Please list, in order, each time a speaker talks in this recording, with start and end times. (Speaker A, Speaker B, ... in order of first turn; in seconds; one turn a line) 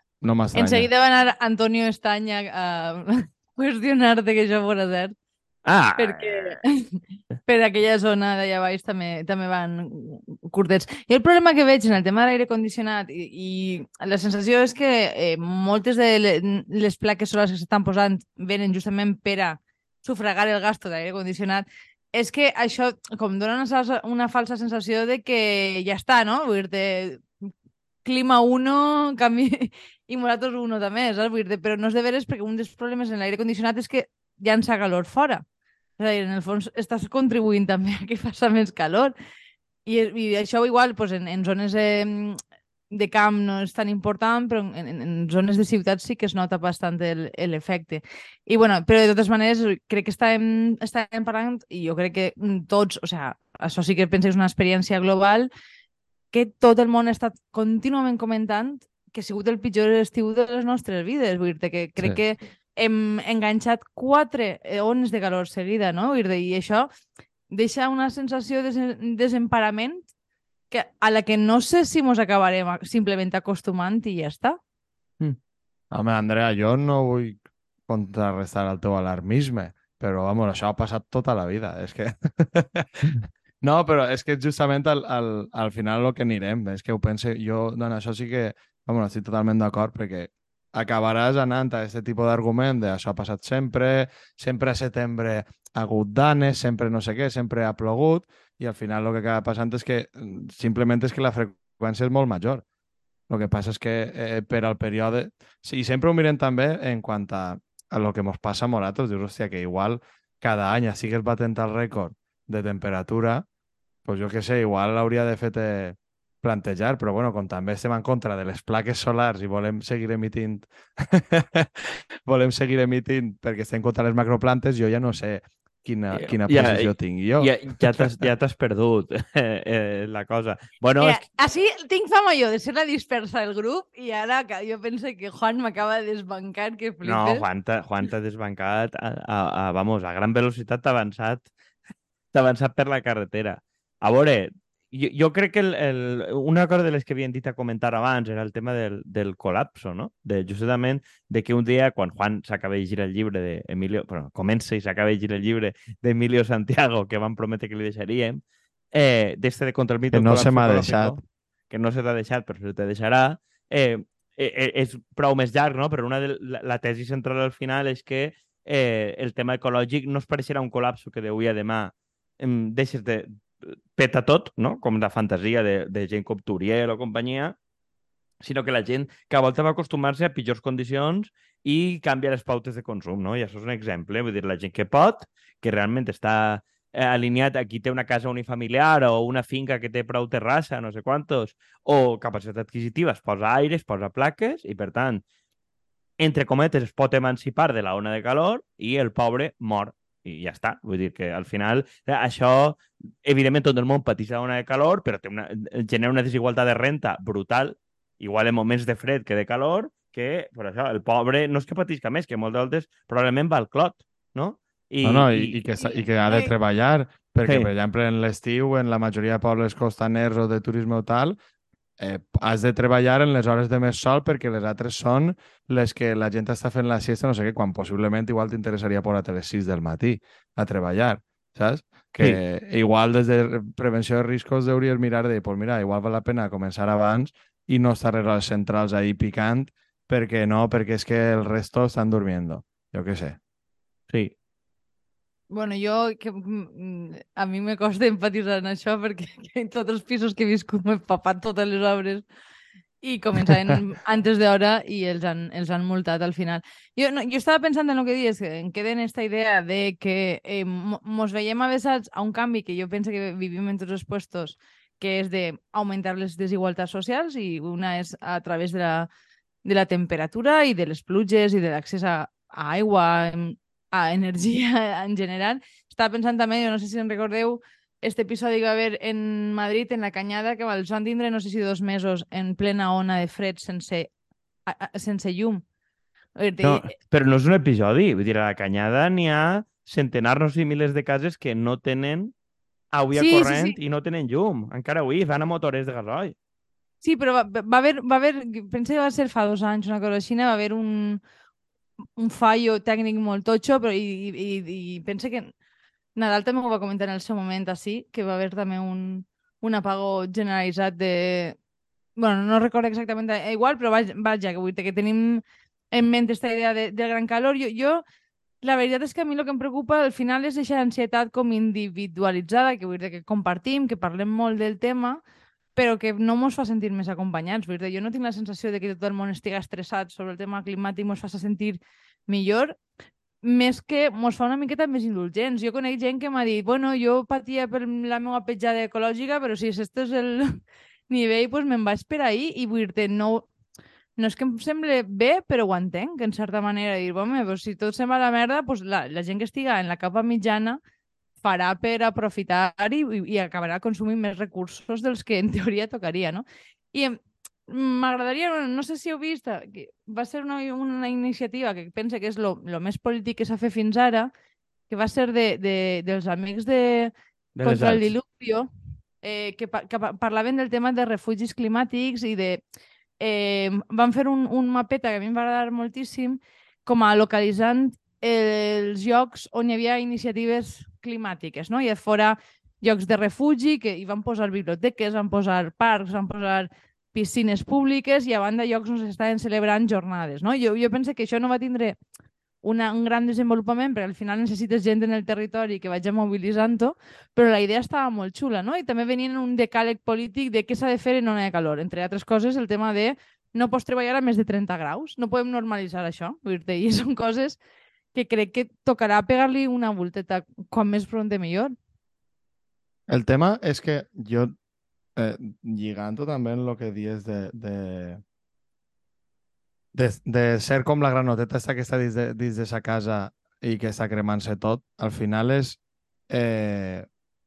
Speaker A: 0.2-0.9
Speaker B: 0.5-5.1
Speaker C: 5.7-6.6
Speaker B: 6.0-27.2
Speaker B: 28.0-35.4
Speaker B: 36.0-39.1
Speaker B: 39.9-42.4
Speaker B: 42.9-55.5
Speaker B: 56.3-66.9
Speaker B: 67.5-70.1
Speaker B: 70.7-74.6
Speaker A: 75.9-102.6
Speaker A: 103.3-113.5
Speaker A: 114.0-128.3
Speaker C: 126.1-131.2
Speaker B: 131.0-137.4
Speaker C: 137.0-141.5
Speaker C: 142.3-158.4
Speaker C: 158.9-177.6
Speaker A: 160.1-161.2
Speaker C: 178.4-195.2
Speaker C: 196.2-215.6
Speaker A: 215.0-221.4
Speaker B: 215.8-216.5
Speaker A: 222.0-243.4
Speaker B: 245.5-252.2
Speaker B: 253.0-269.1
Speaker B: 269.6-284.1
Speaker B: 284.7-285.6
Speaker B: 286.4-286.9
Speaker C: 286.6-292.3
Speaker C: 292.9-296.4
Speaker B: 293.1-293.8
Speaker B: 297.0-301.2
Speaker B: 302.2-305.5
Speaker B: 306.2-311.6
Speaker B: 312.2-318.0
Speaker B: 318.6-325.2
Speaker B: 325.8-332.8
Speaker B: 333.4-340.6
Speaker B: 341.1-343.5
Speaker B: 344.2-350.8
Speaker B: 351.4-364.3
Speaker B: 364.9-368.7
Speaker C: 367.6-368.1
Speaker B: 369.2-372.6
Speaker B: 373.2-392.0
Speaker B: 392.6-407.6
Speaker B: 408.1-411.8
Speaker A: 413.1-414.5
Speaker A: 415.2-418.2
Speaker A: 419.9-425.8
Speaker A: 426.3-427.1